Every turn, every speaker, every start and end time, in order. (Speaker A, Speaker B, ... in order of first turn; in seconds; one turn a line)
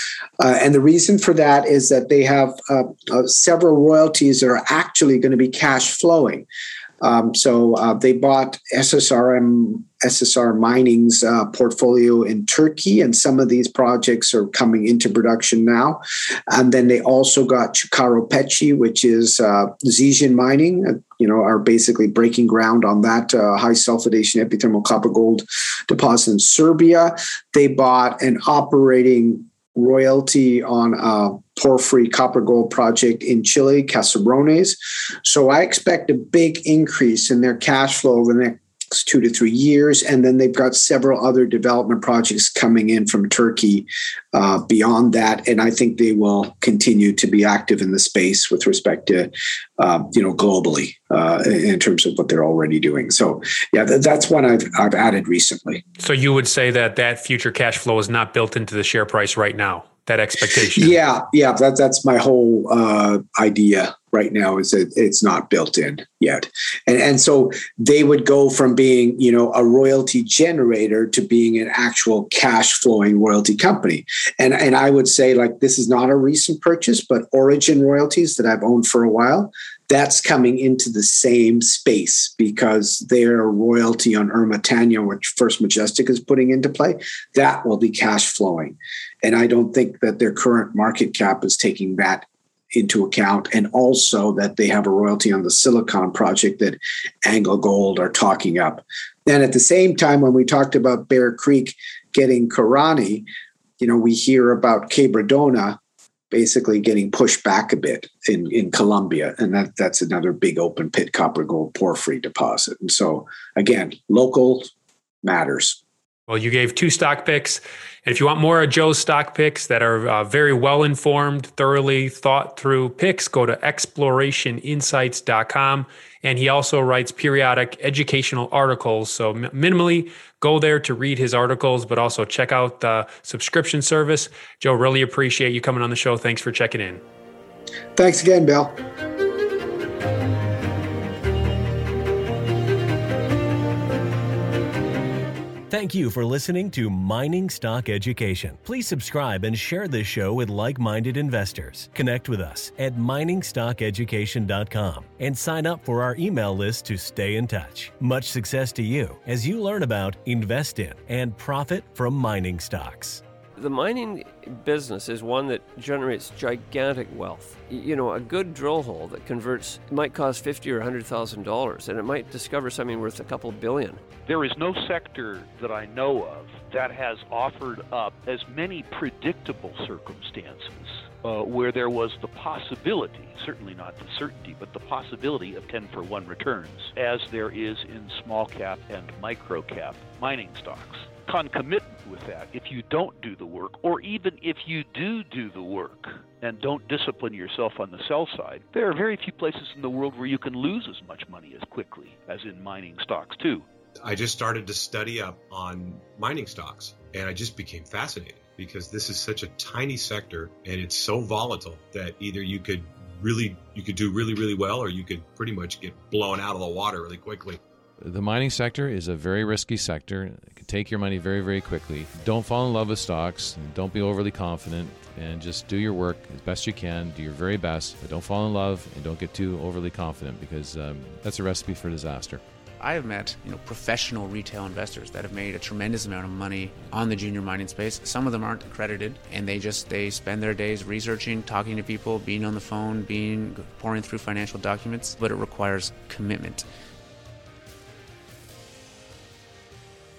Speaker A: 0.4-6.5
Speaker A: 7.0-55.8
Speaker B: 56.0-61.0
Speaker A: 60.7-103.3
Speaker A: 103.8-105.8
Speaker A: 106.3-114.7
Speaker A: 115.2-115.8
Speaker B: 116.3-137.0
Speaker A: 138.0-138.8
Speaker C: 145.7-163.2
Speaker D: 163.6-174.0
Speaker E: 174.3-203.7
Speaker F: 204.0-217.6
Speaker G: 218.0-232.4
Speaker H: 232.8-246.7